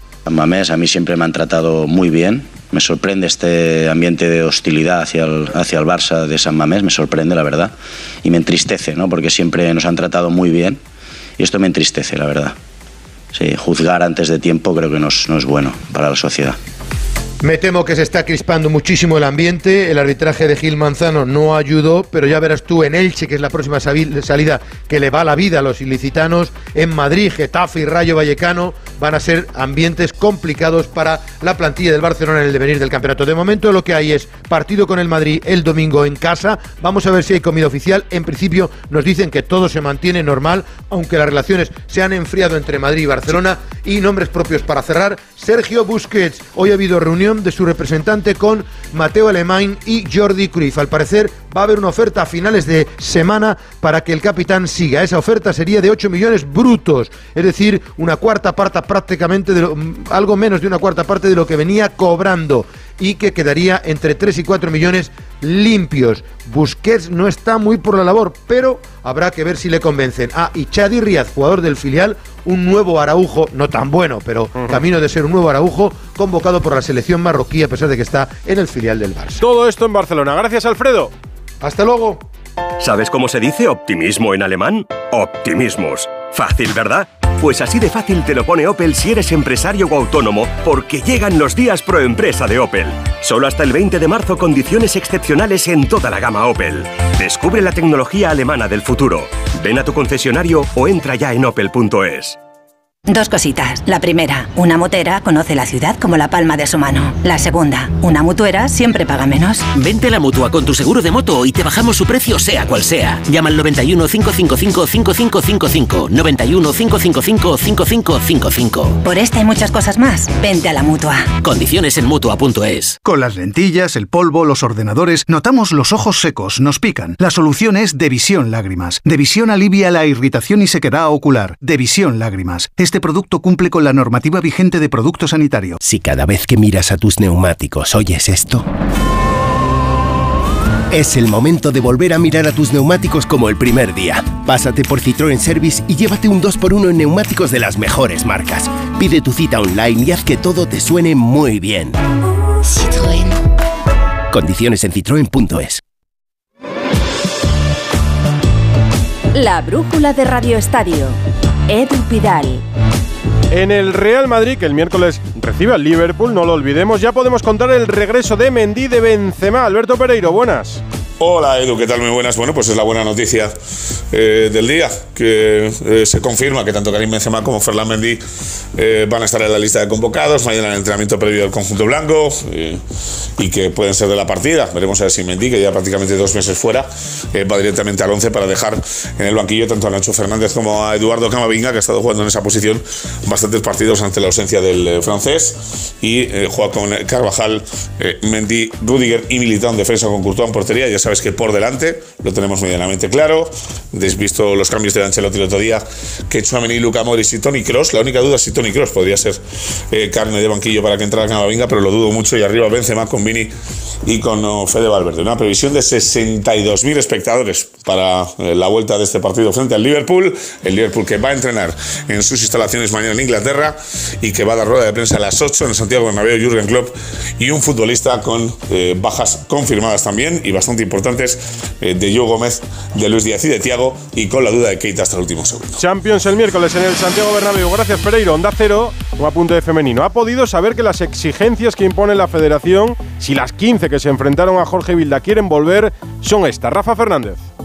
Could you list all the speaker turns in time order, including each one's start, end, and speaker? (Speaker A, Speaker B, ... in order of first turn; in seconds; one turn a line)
Speaker A: 0.3-10.8
Speaker A: 11.4-12.6
Speaker A: 13.3-16.6
Speaker B: 17.4-79.4
Speaker C: 79.4-81.1
Speaker B: 81.6-82.2
Speaker D: 82.8-102.4
Speaker E: 103.1-109.7
Speaker F: 109.7-119.0
Speaker E: 119.0-121.3
Speaker F: 121.4-123.0
Speaker G: 123.0-135.8
Speaker H: 135.8-138.7
Speaker H: 140.9-152.0
Speaker H: 154.3-155.8
Speaker I: 159.4-161.1
Speaker I: 161.9-162.6
Speaker C: 163.5-170.8
Speaker J: 171.2-173.5
Speaker J: 174.1-178.2
Speaker J: 178.7-182.8
Speaker J: 183.4-213.5
Speaker J: 214.0-235.8
Speaker C: 235.8-247.4